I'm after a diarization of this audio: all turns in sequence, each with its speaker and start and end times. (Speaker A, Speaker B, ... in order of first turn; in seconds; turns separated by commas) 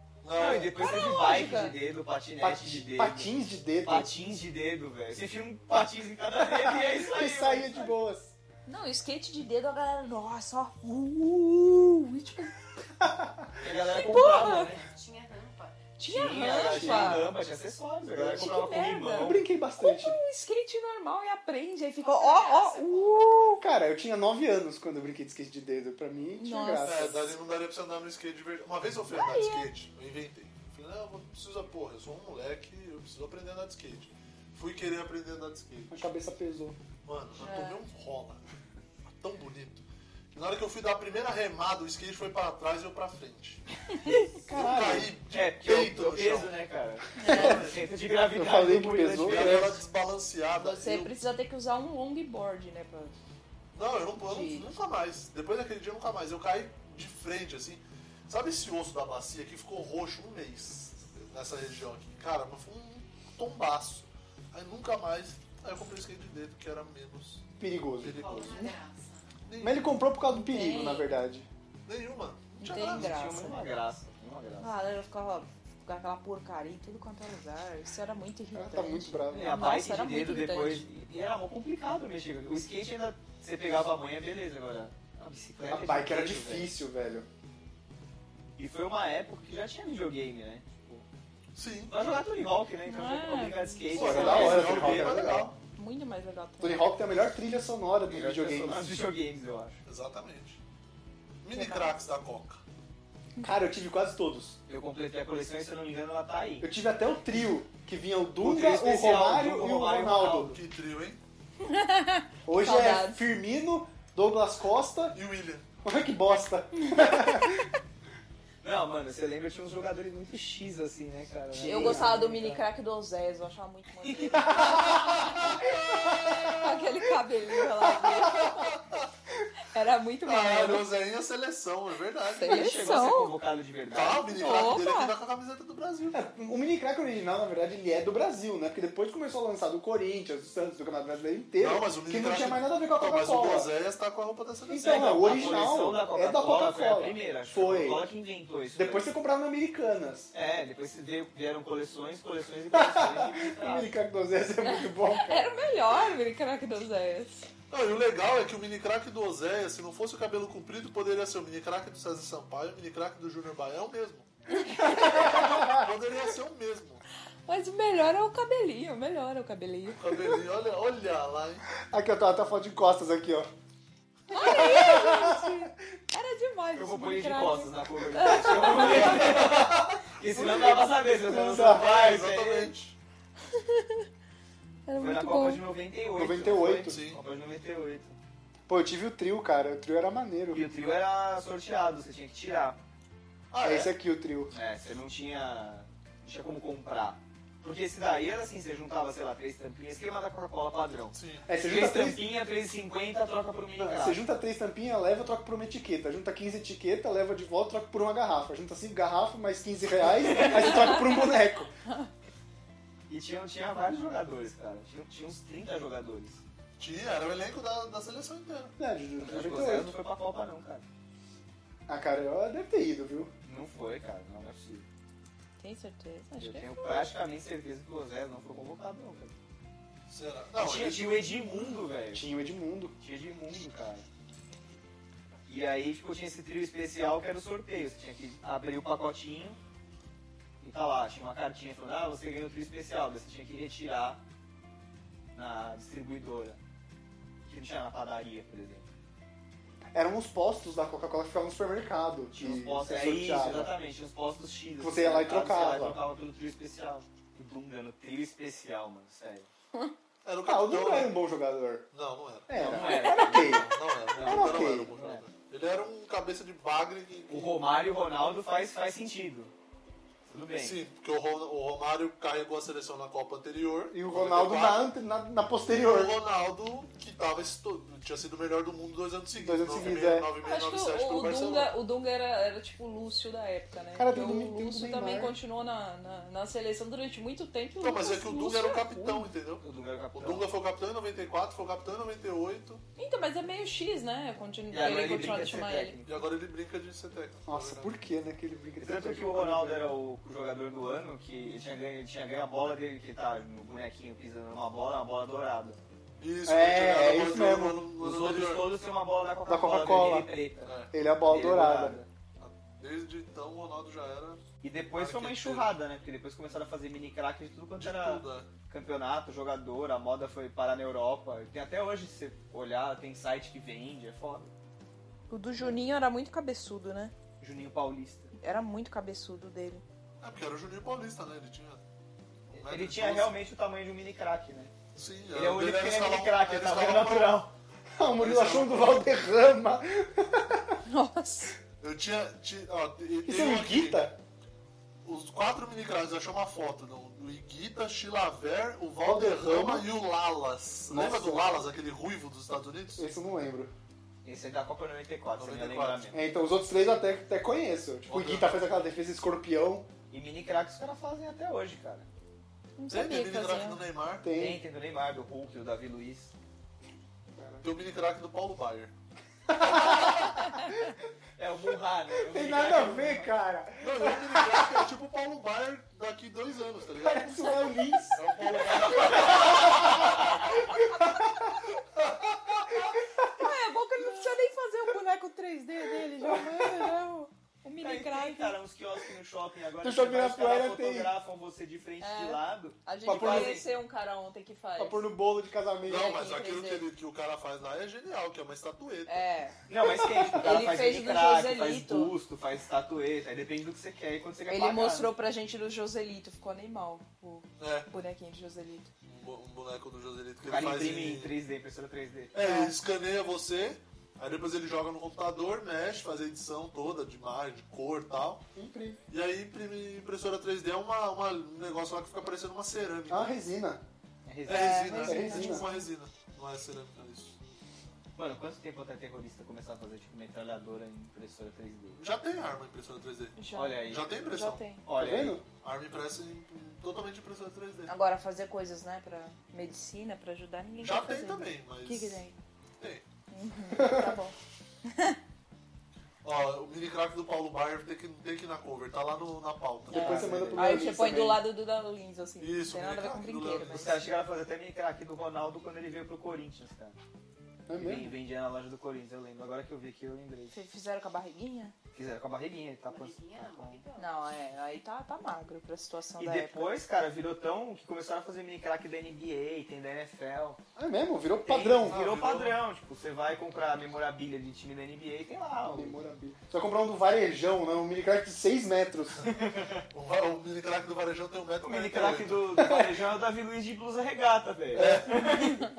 Speaker A: 0.2-0.7, Speaker B: 0.3-7.9, Speaker C: 0.8-1.8, Speaker D: 2.4-4.1, Speaker D: 6.4-8.3, Speaker C: 8.7-12.6, Speaker D: 13.0-13.5, Speaker B: 13.6-14.7, Speaker C: 13.9-14.7, Speaker E: 14.0-15.9, Speaker C: 16.0-17.3, Speaker B: 16.0-19.4, Speaker D: 16.7-17.1, Speaker C: 18.2-23.6, Speaker D: 19.2-20.2, Speaker E: 22.0-23.6, Speaker D: 23.5-27.3, Speaker C: 26.4-27.1, Speaker A: 26.8-36.0, Speaker C: 29.1-29.7, Speaker D: 35.9-36.8, Speaker A: 37.0-38.4, Speaker C: 37.4-37.8, Speaker A: 39.2-43.6, Speaker D: 44.4-45.1, Speaker A: 44.5-46.6, Speaker B: 45.3-49.8, Speaker C: 47.2-47.6, Speaker A: 47.2-47.8, Speaker D: 47.3-47.6, Speaker D: 48.3-49.8, Speaker A: 49.2-51.1, Speaker C: 50.5-53.1, Speaker A: 53.7-67.4, Speaker C: 54.2-54.7, Speaker D: 67.6-68.7, Speaker A: 68.0-68.7, Speaker E: 68.1-69.2, Speaker A: 69.5-70.0, Speaker D: 69.6-71.5, Speaker C: 70.3-71.1, Speaker A: 71.8-73.1, Speaker C: 72.6-73.7, Speaker B: 72.8-74.8, Speaker C: 74.6-80.8, Speaker D: 78.5-79.7, Speaker B: 79.3-86.7, Speaker D: 85.7-87.3, Speaker B: 88.6-91.0, Speaker A: 91.5-92.2, Speaker B: 91.9-95.3, Speaker C: 92.8-94.7, Speaker A: 93.9-95.5, Speaker D: 93.9-95.5, Speaker C: 95.7-97.0, Speaker D: 96.6-98.9, Speaker B: 98.1-99.8, Speaker A: 99.8-100.6, Speaker A: 101.4-102.6, Speaker C: 101.5-101.9, Speaker D: 103.4-104.6, Speaker B: 104.7-106.7, Speaker D: 106.6-110.6, Speaker B: 108.4-110.6, Speaker A: 110.3-111.2, Speaker C: 111.6-113.2, Speaker D: 112.5-115.2, Speaker A: 115.1-115.7, Speaker D: 115.8-117.7, Speaker C: 116.8-117.2, Speaker B: 118.6-122.5, Speaker D: 121.5-122.6, Speaker C: 121.6-128.8, Speaker D: 124.3-126.5, Speaker A: 124.8-126.8, Speaker D: 127.8-128.3, Speaker A: 128.1-129.1, Speaker C: 129.6-130.8, Speaker A: 130.2-133.1, Speaker C: 132.3-133.3, Speaker B: 132.4-134.2, Speaker A: 133.9-136.2, Speaker C: 134.2-135.1, Speaker D: 136.1-143.7, Speaker A: 141.6-145.7, Speaker D: 144.7-148.1, Speaker B: 144.8-149.1, Speaker D: 148.7-150.3, Speaker B: 150.3-153.9, Speaker D: 152.7-155.5, Speaker C: 154.6-157.5, Speaker A: 157.7-164.3, Speaker C: 164.5-165.8, Speaker A: 164.9-167.0, Speaker C: 167.4-170.3, Speaker A: 169.9-171.7, Speaker D: 171.8-173.5, Speaker C: 174.3-179.3, Speaker D: 174.3-175.7, Speaker B: 176.7-182.7, Speaker A: 178.9-182.9, Speaker D: 181.3-181.9, Speaker C: 183.5-184.0, Speaker C: 184.8-185.6, Speaker B: 185.0-188.2, Speaker D: 186.1-186.9, Speaker A: 186.8-187.2, Speaker D: 188.7-190.7, Speaker B: 190.5-192.8, Speaker A: 193.5-193.9, Speaker D: 193.6-194.5, Speaker B: 194.5-204.2, Speaker A: 201.1-201.4, Speaker D: 201.4-202.2, Speaker D: 203.8-211.7, Speaker B: 210.2-211.0, Speaker B: 213.1-216.4, Speaker A: 216.8-218.7, Speaker D: 218.8-219.9, Speaker B: 219.2-220.8, Speaker D: 221.9-223.3, Speaker B: 223.4-224.9, Speaker C: 225.6-227.1, Speaker B: 226.4-229.3, Speaker A: 230.1-231.2, Speaker B: 230.6-232.3, Speaker D: 232.1-232.9, Speaker B: 233.0-234.1, Speaker B: 235.5-239.6, Speaker B: 240.6-244.2, Speaker B: 245.3-246.6, Speaker B: 247.4-248.9, Speaker D: 249.9-253.7, Speaker B: 252.3-259.5, Speaker D: 254.8-256.0, Speaker A: 260.2-261.2, Speaker D: 260.4-261.9, Speaker A: 261.9-267.5, Speaker D: 262.5-264.9, Speaker B: 262.5-265.2, Speaker B: 267.3-269.5, Speaker B: 270.3-270.8, Speaker A: 270.6-274.9, Speaker D: 273.9-276.1, Speaker A: 275.7-281.7, Speaker D: 279.4-280.3, Speaker C: 280.4-289.2, Speaker D: 283.9-285.4, Speaker A: 287.8-289.6, Speaker B: 289.6-290.5, Speaker A: 290.1-292.8, Speaker C: 293.0-296.0, Speaker B: 294.7-296.1, Speaker A: 296.1-297.9, Speaker D: 297.5-299.9, Speaker B: 298.8-305.8, Speaker A: 306.2-308.7, Speaker D: 306.4-307.9, Speaker B: 308.0-310.7, Speaker D: 309.5-310.3, Speaker A: 310.6-310.9, Speaker D: 310.9-312.0, Speaker B: 311.2-312.1, Speaker A: 312.4-314.4, Speaker B: 314.6-324.5, Speaker A: 314.9-315.7, Speaker A: 317.8-318.5, Speaker C: 325.3-327.1, Speaker B: 327.4-328.3, Speaker C: 328.4-329.8, Speaker A: 330.2-331.8, Speaker A: 332.5-333.3, Speaker B: 332.5-334.7, Speaker A: 334.9-337.4, Speaker B: 335.3-337.5, Speaker D: 337.9-340.8, Speaker A: 338.2-339.1, Speaker C: 340.9-341.6, Speaker A: 341.8-344.1, Speaker D: 343.2-344.2, Speaker A: 345.0-353.1, Speaker D: 349.0-349.9, Speaker D: 350.9-351.6, Speaker D: 352.9-353.7, Speaker B: 354.2-356.2, Speaker A: 355.4-356.1, Speaker D: 356.1-359.9, Speaker A: 358.1-358.7, Speaker B: 360.1-362.1, Speaker C: 362.8-363.8, Speaker A: 362.9-364.2, Speaker D: 364.2-364.6, Speaker B: 364.3-366.3, Speaker D: 367.4-367.7, Speaker A: 367.6-368.9, Speaker D: 369.5-370.6, Speaker A: 369.8-370.1, Speaker B: 371.4-373.3, Speaker D: 372.2-374.9, Speaker A: 373.8-377.3, Speaker D: 377.0-378.3, Speaker A: 378.1-380.2, Speaker B: 378.9-380.2, Speaker D: 379.1-381.4, Speaker A: 381.9-383.0, Speaker C: 383.4-388.6, Speaker D: 386.2-386.9, Speaker B: 387.8-393.6, Speaker D: 389.8-391.1, Speaker C: 392.0-395.1, Speaker D: 393.0-393.6, Speaker D: 394.8-396.2, Speaker A: 395.9-399.2, Speaker C: 395.9-396.8, Speaker C: 399.1-399.6, Speaker B: 399.7-405.1, Speaker D: 399.9-400.3, Speaker C: 400.4-402.1, Speaker C: 404.5-408.9, Speaker A: 407.6-407.9, Speaker A: 409.0-411.4, Speaker B: 410.4-412.3, Speaker A: 412.3-418.4, Speaker C: 412.3-412.7, Speaker D: 418.5-419.0, Speaker A: 419.1-423.3, Speaker D: 423.1-423.8, Speaker B: 424.2-425.0, Speaker A: 424.5-427.3, Speaker C: 424.5-425.9, Speaker D: 425.0-425.7, Speaker B: 428.2-432.0, Speaker A: 432.0-434.6, Speaker C: 433.4-434.8, Speaker B: 433.5-434.1, Speaker B: 434.8-435.4, Speaker D: 434.9-435.4, Speaker A: 435.6-437.9, Speaker C: 437.9-442.4, Speaker A: 440.8-442.2, Speaker A: 442.8-443.0, Speaker C: 443.3-445.2, Speaker D: 443.7-444.2, Speaker A: 446.2-450.2, Speaker D: 449.9-451.4, Speaker B: 449.9-450.8, Speaker C: 449.9-454.0, Speaker A: 452.4-454.0, Speaker B: 453.6-457.0, Speaker D: 457.7-458.1, Speaker B: 457.8-460.5, Speaker C: 460.5-461.7, Speaker B: 461.9-463.8, Speaker E: 462.8-464.4, Speaker C: 464.0-466.7, Speaker B: 466.2-470.6, Speaker D: 470.8-472.0, Speaker B: 471.4-476.0, Speaker A: 471.8-472.6, Speaker D: 475.7-479.2, Speaker B: 479.2-479.8, Speaker A: 479.9-482.4, Speaker B: 481.6-485.6, Speaker D: 482.6-482.9, Speaker A: 484.7-485.1